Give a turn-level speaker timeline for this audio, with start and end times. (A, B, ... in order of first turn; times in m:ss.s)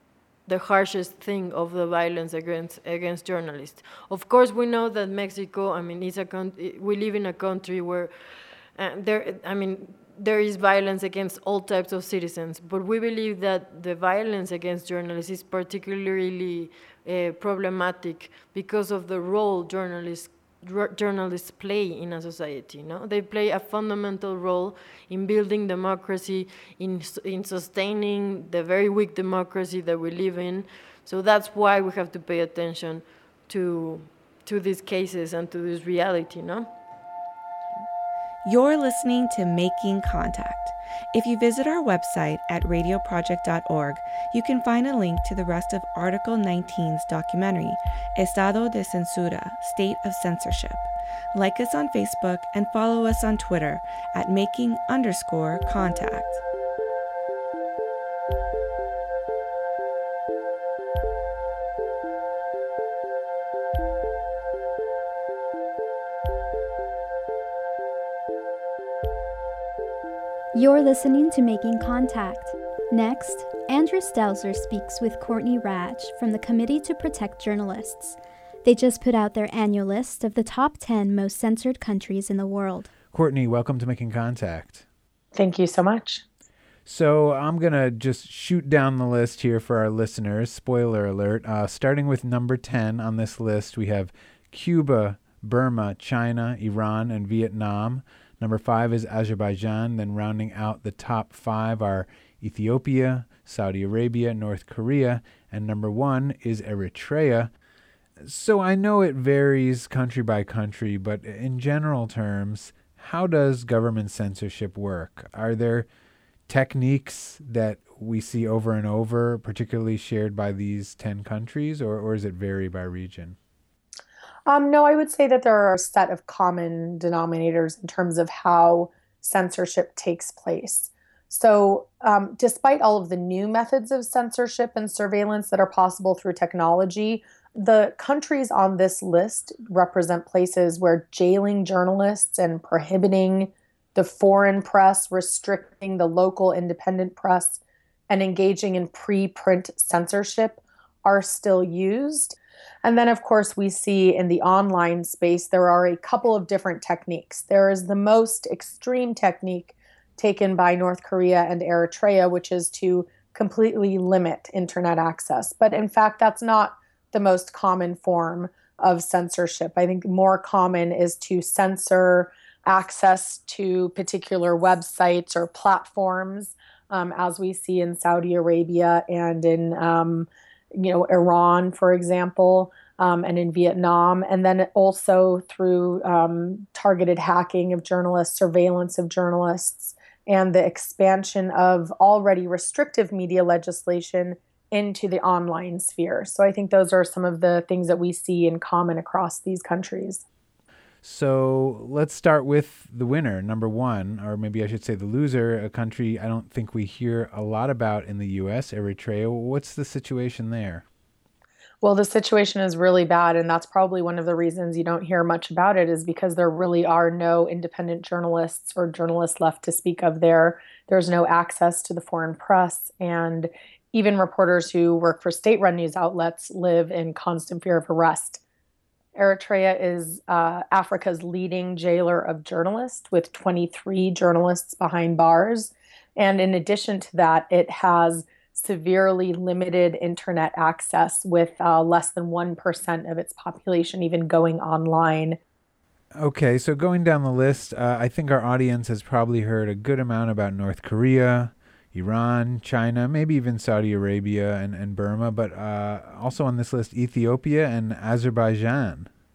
0:00.4-0:36.7 A
0:38.4-0:56.4 B
1:10.5-1:22.9 C
1:23.1-1:24.8 D
1:25.3-1:26.2 E
1:26.8-1:47.5 D
1:48.2-1:55.9 D
1:56.5-2:03.4 D
2:04.5-3:20.2 E
3:21.0-3:30.8 D
3:31.8-3:48.4 E
3:49.1-4:05.4 E
4:06.2-4:19.1 D